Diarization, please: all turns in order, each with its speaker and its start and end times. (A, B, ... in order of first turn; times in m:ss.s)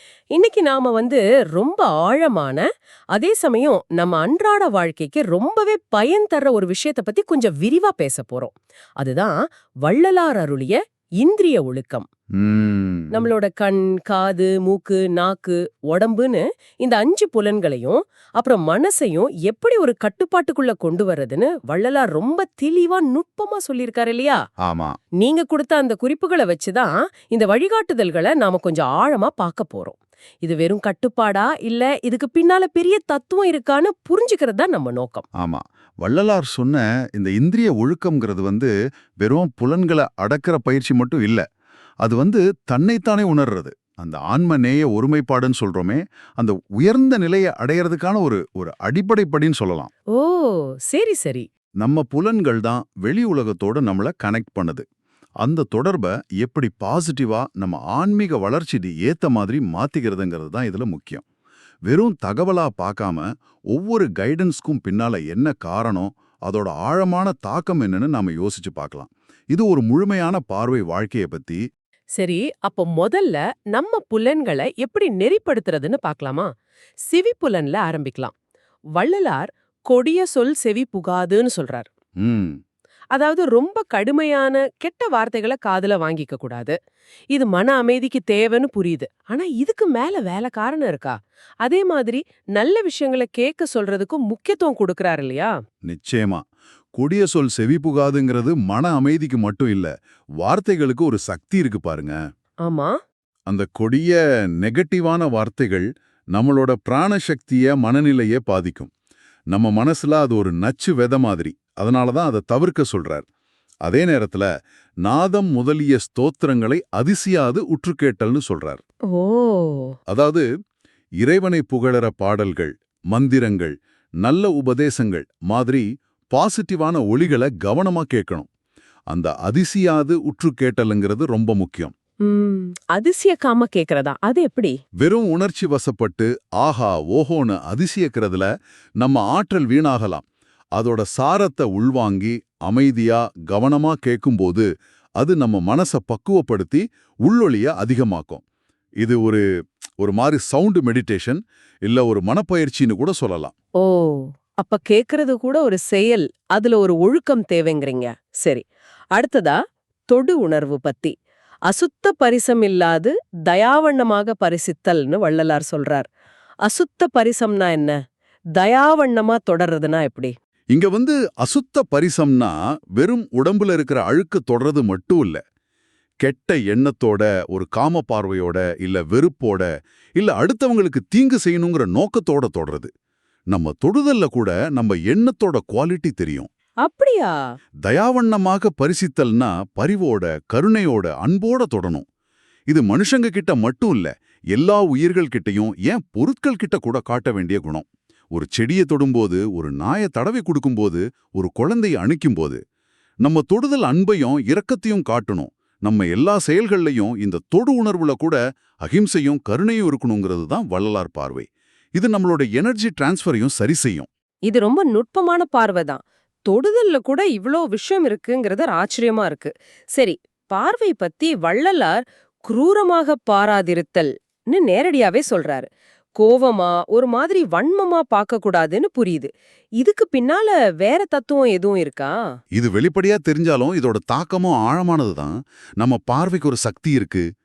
0:00.4-0:02.6 A
0:03.1-0:12.1 A
0:12.4-0:13.3 B
0:13.1-0:24.4 A
0:24.6-0:25.0 B
0:25.2-0:35.2 A
0:35.4-0:41.4 B
0:42.0-0:49.9 B
0:50.1-0:51.5 A
0:51.8-0:54.8 B
0:55.4-1:01.2 B
1:01.9-1:11.6 B
1:12.2-1:16.5 A
1:17.1-1:18.3 A
1:19.0-1:21.9 A
1:22.2-1:22.6 B
1:23.1-1:26.8 A
1:27.3-1:35.5 A
1:35.8-1:36.4 B
1:37.0-1:42.2 B
1:42.6-1:42.9 A
1:43.5-1:48.9 B
1:49.5-1:53.2 B
1:53.8-1:54.5 B
1:55.0-1:58.8 B
1:59.1-1:59.9 A
2:00.1-2:00.4 B
2:01.2-2:08.5 B
2:09.1-2:11.9 B
2:12.2-2:14.8 A
2:15.0-2:18.5 B
2:19.0-2:20.2 B
2:20.8-2:24.6 B
2:25.2-2:28.4 B
2:29.0-2:29.4 B
2:30.0-2:33.5 B
2:33.8-2:38.6 A
2:39.2-2:39.6 A
2:40.1-2:41.1 A
2:41.7-2:46.1 A
2:46.6-2:48.0 A
2:48.6-2:50.3 A
2:50.7-2:55.4 B
2:56.2-3:02.9 B
3:03.5-3:06.5 B
3:06.8-3:07.4 A
3:07.8-3:12.0 B
3:12.7-3:22.6 B
3:23.2-3:34.1 B
3:34.5-3:45.7 A
3:46.2-3:52.2 A
3:52.5-3:57.2 B